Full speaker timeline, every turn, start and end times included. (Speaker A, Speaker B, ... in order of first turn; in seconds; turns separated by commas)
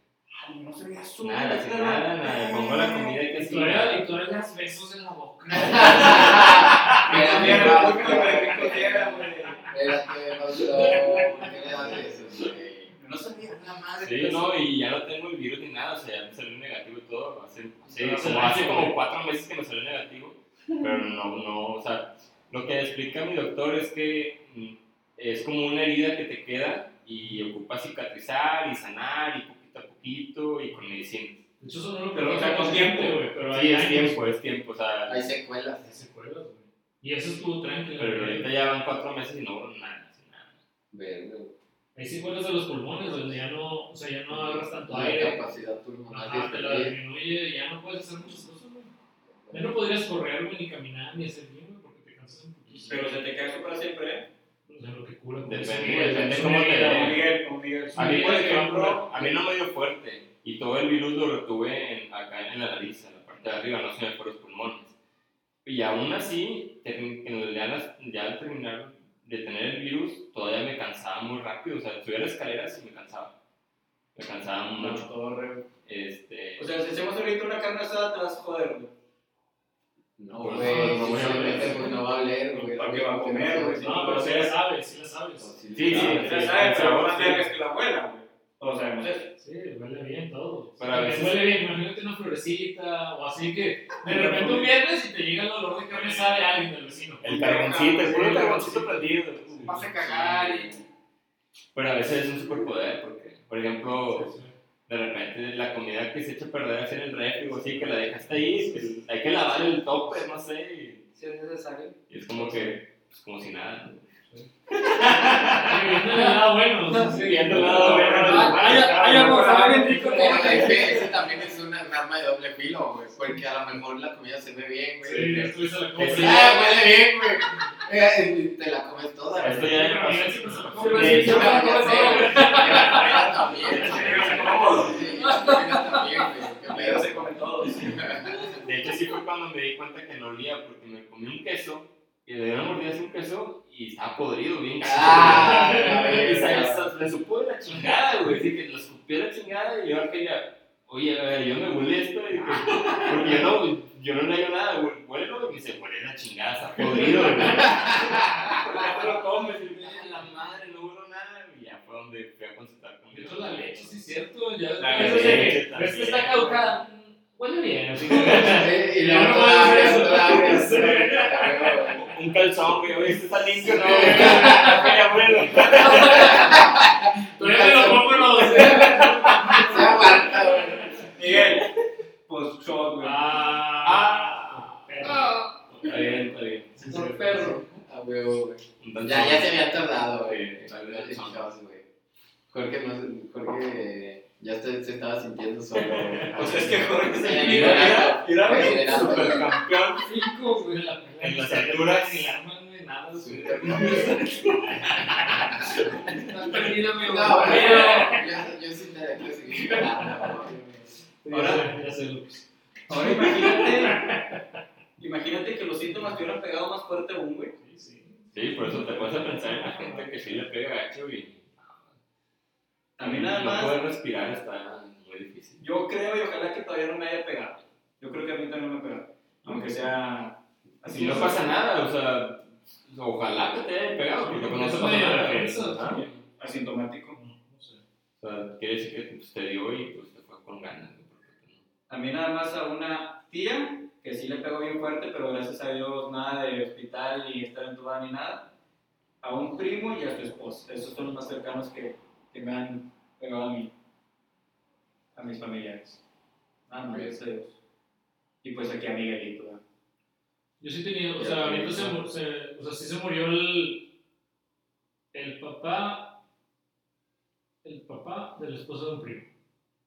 Speaker A: 0.3-3.2, Speaker B: 1.2-4.1, Speaker C: 3.3-8.2, Speaker D: 5.5-12.9, Speaker A: 6.2-9.7, Speaker B: 6.9-7.7, Speaker C: 10.7-11.5, Speaker A: 13.0-14.6, Speaker B: 14.0-31.4, Speaker C: 17.9-19.0, Speaker C: 31.6-34.2, Speaker A: 32.1-33.2, Speaker B: 33.5-35.3, Speaker D: 35.1-35.9, Speaker C: 35.8-38.5, Speaker B: 38.0-40.6, Speaker D: 40.9-41.5, Speaker C: 42.0-45.5, Speaker D: 43.0-43.4, Speaker D: 44.3-47.0, Speaker C: 46.1-48.9, Speaker D: 49.5-49.8, Speaker C: 49.5-53.2, Speaker A: 52.8-54.3, Speaker C: 54.7-57.3, Speaker B: 55.4-57.2, Speaker A: 55.9-59.3, Speaker C: 57.9-59.0, Speaker B: 58.0-64.9, Speaker B: 65.7-73.3, Speaker B: 74.2-75.1, Speaker A: 74.8-75.7, Speaker B: 75.8-76.7, Speaker A: 76.6-78.9, Speaker D: 80.2-84.0, Speaker B: 80.4-82.0, Speaker C: 80.5-82.0, Speaker A: 82.5-84.6, Speaker C: 83.8-85.6, Speaker D: 85.4-86.4, Speaker B: 85.7-87.5, Speaker A: 85.8-89.3, Speaker C: 89.4-97.2, Speaker B: 90.8-91.5, Speaker A: 94.0-94.7, Speaker B: 95.8-96.6, Speaker B: 97.2-100.7, Speaker A: 97.2-98.8, Speaker C: 98.1-98.8, Speaker C: 99.5-100.0, Speaker E: 99.7-100.8, Speaker B: 101.7-104.3, Speaker C: 104.1-104.5, Speaker B: 104.9-111.0, Speaker C: 107.6-108.9, Speaker E: 111.2-112.0, Speaker B: 112.1-114.1, Speaker C: 112.4-112.7, Speaker C: 114.3-120.7, Speaker B: 114.7-116.0, Speaker E: 116.1-117.1, Speaker B: 117.0-119.7, Speaker A: 117.5-120.9, Speaker E: 118.1-121.0, Speaker D: 120.0-130.0, Speaker C: 125.0-126.8, Speaker B: 126.0-126.7, Speaker B: 129.4-131.6, Speaker C: 129.5-134.8, Speaker E: 130.7-133.1, Speaker D: 130.9-138.6, Speaker A: 133.6-135.0, Speaker B: 133.7-135.0, Speaker E: 135.2-136.2, Speaker A: 136.7-138.1, Speaker B: 138.5-164.2, Speaker D: 144.8-146.9, Speaker C: 145.2-146.2, Speaker C: 152.8-153.3, Speaker C: 156.8-158.2, Speaker D: 157.7-158.6, Speaker A: 158.4-160.2, Speaker C: 163.1-172.1, Speaker A: 164.8-165.6, Speaker B: 164.9-166.6, Speaker D: 168.1-172.1, Speaker B: 168.2-168.4, Speaker B: 171.9-176.7, Speaker C: 173.6-181.2, Speaker D: 173.9-174.8, Speaker D: 175.9-181.1, Speaker B: 178.6-179.7, Speaker A: 181.1-183.4, Speaker C: 183.0-187.7, Speaker B: 183.8-185.2, Speaker E: 185.0-185.7, Speaker B: 185.8-186.8, Speaker E: 186.9-187.6, Speaker D: 187.3-191.8, Speaker B: 188.8-189.6, Speaker B: 190.2-191.5, Speaker D: 192.5-199.5, Speaker B: 195.8-200.2, Speaker A: 196.3-199.3, Speaker E: 198.9-199.5, Speaker E: 200.0-200.9, Speaker C: 200.6-208.3, Speaker B: 201.2-202.4, Speaker B: 203.0-206.2, Speaker D: 203.2-204.2, Speaker E: 206.2-208.2, Speaker D: 207.0-210.8, Speaker C: 209.5-210.6, Speaker C: 211.2-214.4, Speaker A: 211.3-211.7, Speaker A: 212.9-214.1, Speaker A: 215.0-217.6, Speaker C: 217.6-220.4, Speaker B: 218.3-221.9, Speaker A: 223.0-223.8, Speaker B: 223.0-225.6, Speaker A: 225.6-231.5, Speaker B: 230.9-236.2, Speaker C: 234.2-236.0, Speaker A: 235.8-237.2, Speaker C: 237.1-237.8, Speaker B: 238.2-241.6, Speaker A: 241.9-248.5, Speaker A: 249.2-253.7, Speaker A: 255.2-256.0, Speaker A: 256.7-257.6, Speaker D: 256.9-257.1, Speaker A: 258.4-259.6, Speaker C: 260.6-263.9, Speaker D: 261.2-262.0, Speaker C: 265.1-266.2, Speaker C: 267.6-269.3